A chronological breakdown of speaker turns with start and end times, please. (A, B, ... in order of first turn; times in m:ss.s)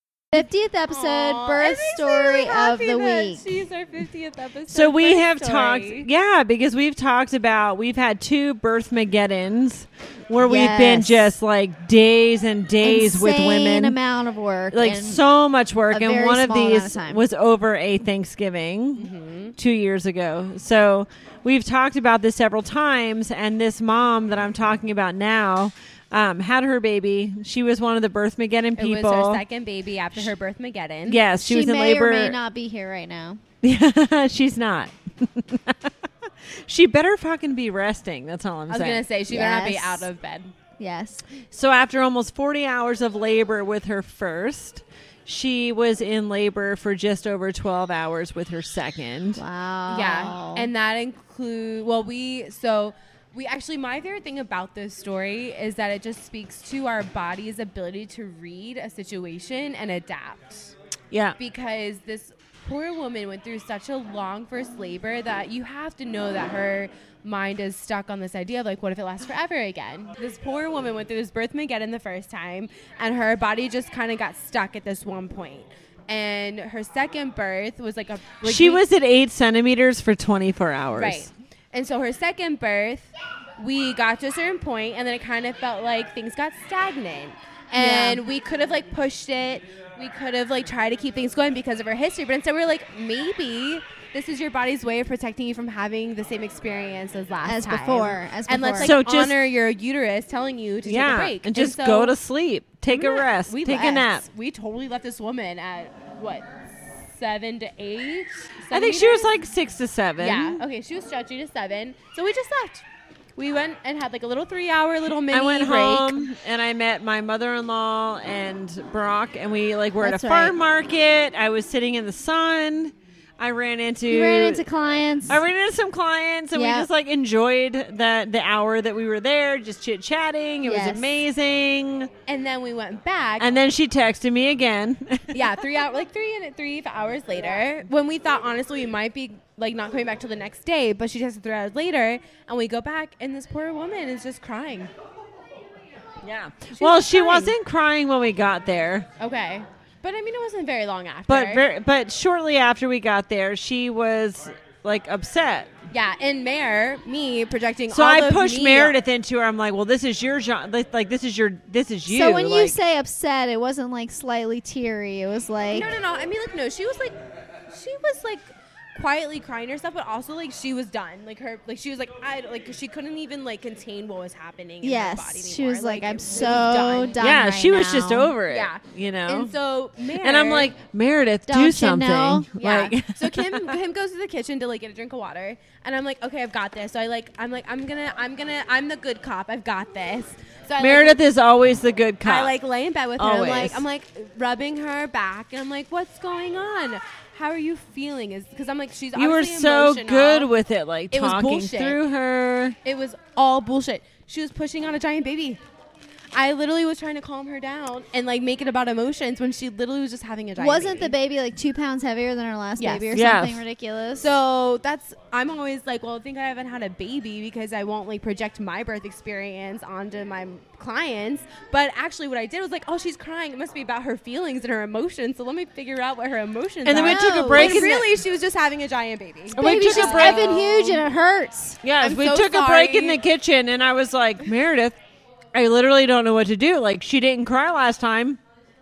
0:00.3-0:03.6 A
0:00.9-0:06.1 B
0:04.7-0:14.0 C
0:10.4-0:11.3 A
0:12.8-0:15.2 A
0:14.7-0:29.4 C
0:15.9-0:17.2 A
0:19.0-0:19.6 B
0:28.8-0:31.2 B
0:31.1-0:32.4 C
0:31.4-0:33.4 A
0:33.6-0:39.1 C
0:38.7-0:40.5 B
0:39.3-0:40.1 A
0:40.8-0:41.2 A
0:41.5-0:49.4 C
0:49.4-0:50.7 A
0:49.9-1:00.7 B
1:01.1-1:01.4 C
1:01.4-1:18.8 B
1:18.4-1:21.3 C
1:21.0-1:42.2 B
1:27.8-1:28.2 A
1:37.4-1:39.0 A
1:38.8-1:39.4 C
1:40.8-1:44.3 C
1:42.9-1:46.5 B
1:47.1-1:49.3 B
1:48.7-1:50.6 C
1:50.2-1:52.8 B
1:53.4-1:56.3 B
1:55.3-2:04.6 C
2:00.0-2:00.6 A
2:04.1-2:05.4 A
2:05.3-2:12.1 C
2:06.5-2:06.9 A
2:10.6-2:11.1 A
2:12.3-2:13.6 B
2:13.4-2:15.6 C
2:15.3-2:24.9 B
2:26.2-2:29.1 C
2:26.8-2:27.6 B
2:29.2-2:31.6 B
2:31.3-2:35.7 C
2:35.9-2:39.0 B
2:37.9-2:42.8 C
2:42.1-2:45.9 A
2:45.7-2:47.2 B
2:47.7-2:57.2 B
2:54.8-2:58.4 A
2:57.2-2:59.5 C
2:58.4-3:00.7 B
3:00.2-3:03.8 C
3:01.5-3:02.7 A
3:02.6-3:11.2 B
3:10.8-3:12.6 C
3:12.2-3:20.5 B
3:13.2-3:13.8 C
3:19.1-3:22.8 C
3:21.1-3:22.0 B
3:22.8-3:25.6 B
3:26.3-3:31.1 B
3:30.6-3:34.3 A
3:32.8-3:33.2 B
3:33.1-3:33.6 C
3:34.2-3:51.0 B
3:46.8-3:48.1 C
3:46.9-3:48.0 A
3:49.5-3:50.6 C
3:49.6-3:51.8 A
3:51.8-3:55.0 C
3:52.0-3:53.2 B
3:55.5-3:58.4 C